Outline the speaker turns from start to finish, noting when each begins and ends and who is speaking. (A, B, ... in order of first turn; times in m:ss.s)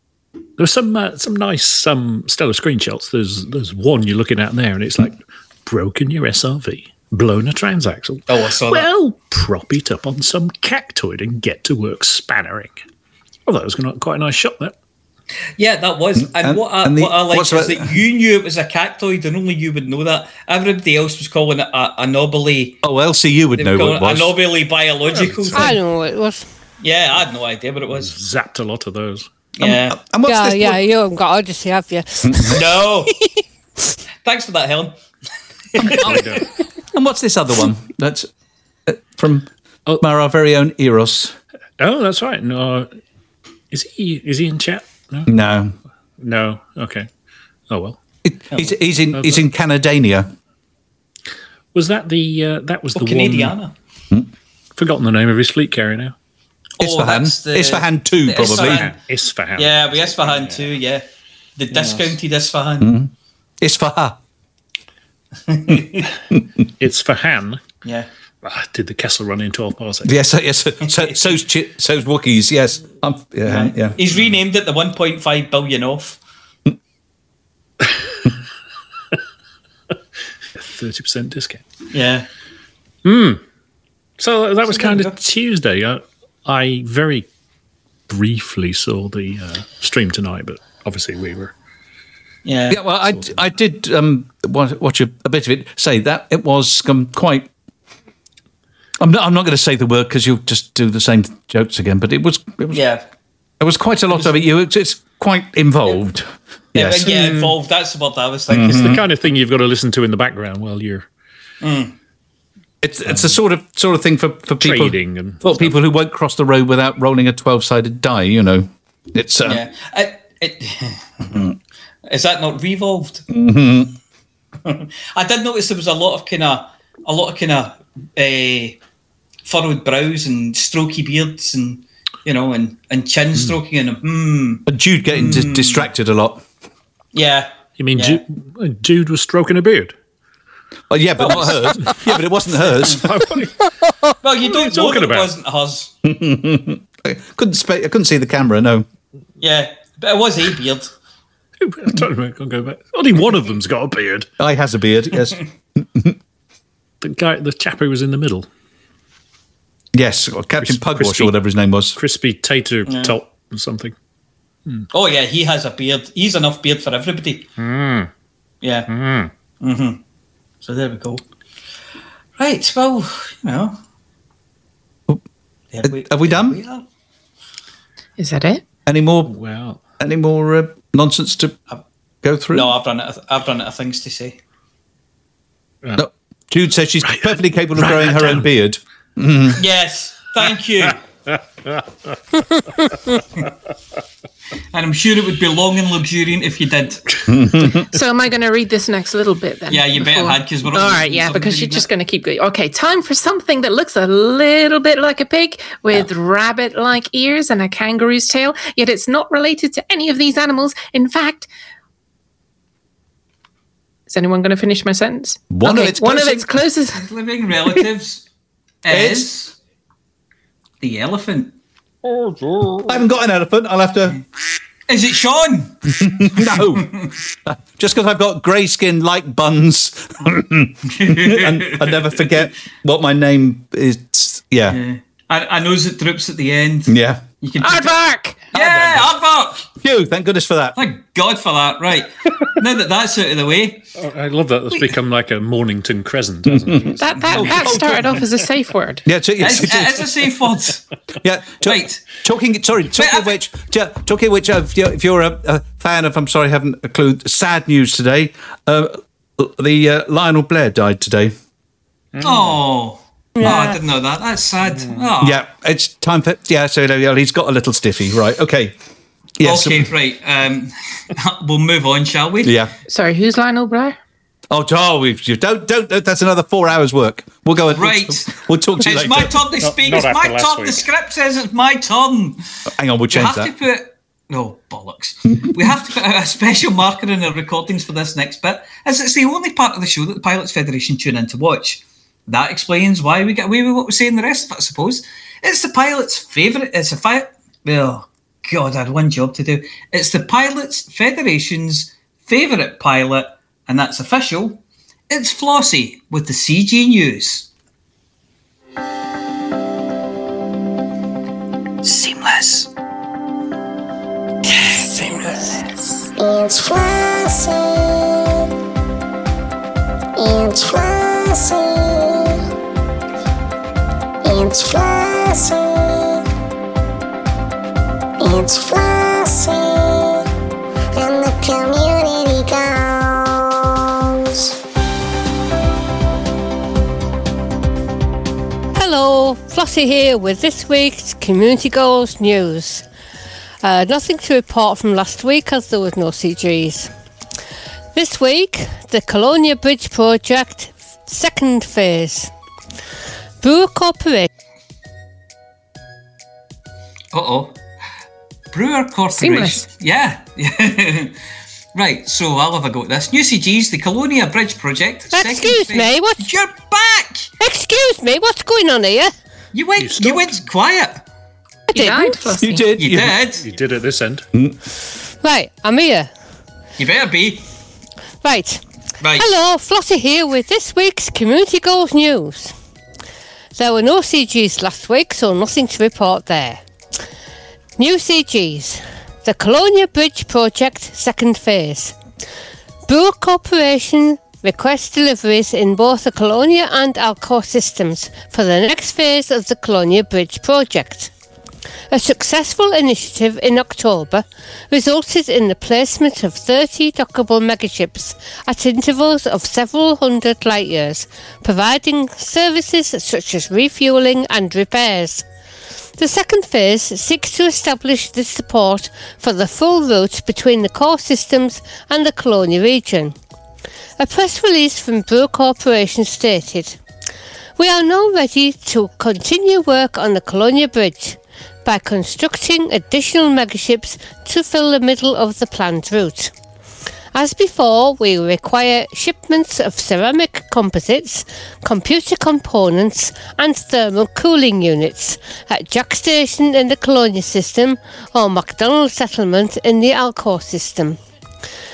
0:00.6-0:12.8 A
0:08.3-0:08.9 B
0:13.5-0:14.8 A
0:15.6-0:22.8 B
0:16.2-0:17.9 C
0:22.8-0:24.3 C
0:23.6-0:25.8 B
0:25.1-0:25.8 A
0:25.5-0:26.5 D
0:26.8-0:28.1 B
0:27.9-0:29.3 A
0:29.6-0:30.0 B
0:29.6-0:30.8 C
0:30.2-0:32.5 D
0:32.2-0:32.6 C
0:32.5-0:33.1 B
0:34.2-0:34.9 B
0:35.8-0:36.2 C
0:35.8-0:36.2 B
0:36.0-0:36.4 A
0:36.9-0:38.3 C
0:38.9-0:39.5 C
0:40.0-0:41.4 C
0:41.8-0:42.9 A
0:43.7-0:45.3 A
0:45.3-0:45.7 C
0:46.2-0:47.1 A
0:47.7-0:48.0 A
0:48.2-0:50.3 C
0:49.1-0:49.5 A
0:51.7-0:53.6 A
0:52.9-0:53.7 B
0:54.8-0:56.1 A
0:56.8-0:58.9 B
0:56.8-0:58.8 C
0:58.3-1:00.7 A
0:59.6-1:01.0 B
1:01.6-1:02.9 B
1:01.7-1:02.2 A
1:02.8-1:04.2 C
1:05.5-1:06.0 B
1:06.8-1:07.6 A
1:08.4-1:10.1 A
1:10.0-1:14.0 C
1:10.9-1:11.4 B
1:13.4-1:16.2 B
1:20.6-1:21.6 A
1:21.9-1:22.3 B
1:23.0-1:23.4 A
1:24.2-1:27.3 A
1:24.6-1:25.2 B
1:28.1-1:31.5 A
1:32.4-1:32.8 B
1:32.7-1:37.5 C
1:33.0-1:33.4 A
1:39.0-1:42.8 C
1:42.7-1:43.0 B
1:43.6-1:47.1 C
1:46.7-1:49.0 B
1:47.0-1:47.6 A
1:48.5-1:49.0 C
1:48.6-1:51.1 A
1:51.6-1:51.9 B
1:52.8-1:59.6 C
1:53.1-1:53.3 A
1:54.6-1:55.8 A
1:59.4-2:01.2 B
2:02.1-2:03.2 B
2:03.3-2:03.9 C
2:04.6-2:08.8 B
2:09.4-2:15.9 B
2:14.7-2:16.4 C
2:17.1-2:18.2 B
2:17.8-2:20.0 A
2:20.9-2:23.0 C
2:21.2-2:22.1 A
2:22.8-2:25.3 A
2:24.2-2:25.9 B
2:26.0-2:28.8 C
2:29.4-2:30.9 B
2:31.6-2:34.3 A
2:34.4-2:36.2 C
2:37.0-2:38.5 A
2:39.9-2:42.0 C
2:40.6-2:41.4 A
2:42.0-2:43.9 A
2:42.9-2:43.2 B
2:44.9-2:47.4 B
2:47.6-2:48.1 A
2:48.6-2:48.9 B
2:48.9-2:49.3 A
2:49.6-2:50.0 B
2:50.6-2:51.2 B
2:52.4-2:53.8 B
2:55.7-2:56.8 B
2:55.8-2:56.6 C
2:58.2-2:58.6 E
2:58.9-2:59.3 C
2:59.2-2:59.8 A
3:00.0-3:01.6 C
3:02.2-3:02.7 C
3:02.5-3:04.4 B
3:06.0-3:09.6 C
3:07.0-3:08.5 A
3:09.6-3:11.0 B
3:14.7-3:17.0 B
3:17.3-3:17.8 C
3:17.9-3:31.5 E
3:19.7-3:21.8 B
3:34.1-3:37.0 E
3:35.5-3:36.6 C
3:36.9-3:38.2 B
3:38.8-3:39.5 B
3:38.9-3:39.3 C
3:40.8-3:41.5 B
3:42.2-3:43.0 A
3:42.9-3:44.2 C
3:44.9-3:45.7 B
3:46.0-3:46.9 C
3:46.4-3:47.1 B
3:47.4-3:54.8 C
3:50.9-3:52.3 B
3:54.7-3:57.9 B
3:56.9-3:57.2 C
3:57.6-3:58.4 E
3:58.5-3:59.6 B
3:58.5-3:59.1 C
3:59.8-4:00.8 C
4:00.8-4:03.8 B
4:04.0-4:08.2 A
4:06.5-4:08.1 C
4:07.0-4:09.1 E
4:07.2-4:07.6 B
4:09.0-4:10.1 C
4:09.4-4:10.8 B
4:11.2-4:21.3 C
4:11.6-4:12.0 B
4:12.9-4:13.3 B
4:22.1-4:22.6 A
4:22.2-4:25.4 B
4:23.4-4:23.8 D
4:24.7-4:25.1 A
4:25.2-4:28.8 C
4:29.4-4:29.9 C
4:29.4-4:32.5 B
4:32.4-4:32.7 C
4:32.9-4:34.0 E
4:34.5-4:39.3 C
4:37.7-4:42.4 B
4:39.6-4:40.8 A
4:42.8-4:43.5 C
4:43.1-5:07.5 B
5:11.8-5:12.7 B
5:14.8-5:16.0 E
5:16.1-5:18.3 F
5:20.2-5:22.4 F
5:24.2-5:26.2 F
5:28.2-5:30.2 F
5:31.0-5:33.5 F
5:38.7-5:42.8 D
5:43.6-5:46.9 D
5:47.9-5:52.3 D
5:53.4-5:54.3 D
5:57.1-5:57.6 B
5:58.5-6:01.1 B
5:59.1-5:59.6 E
6:01.7-6:07.3 B
6:05.1-6:06.3 D
6:07.4-6:09.1 D
6:09.5-6:11.0 B
6:09.8-6:10.4 A
6:11.7-6:12.6 E
6:11.7-6:12.2 D
6:12.4-6:13.2 C
6:12.8-6:13.4 B
6:13.4-6:14.2 A
6:15.2-6:16.1 D
6:16.8-6:17.4 B
6:18.2-6:18.6 D
6:19.0-6:19.3 B
6:19.2-6:22.5 D
6:23.6-6:26.6 D
6:27.8-6:32.0 D
6:32.9-6:41.1 D
6:41.9-6:55.2 D
6:56.0-7:03.2 D
7:04.0-7:06.8 D
7:07.6-7:16.3 D
7:17.1-7:31.0 D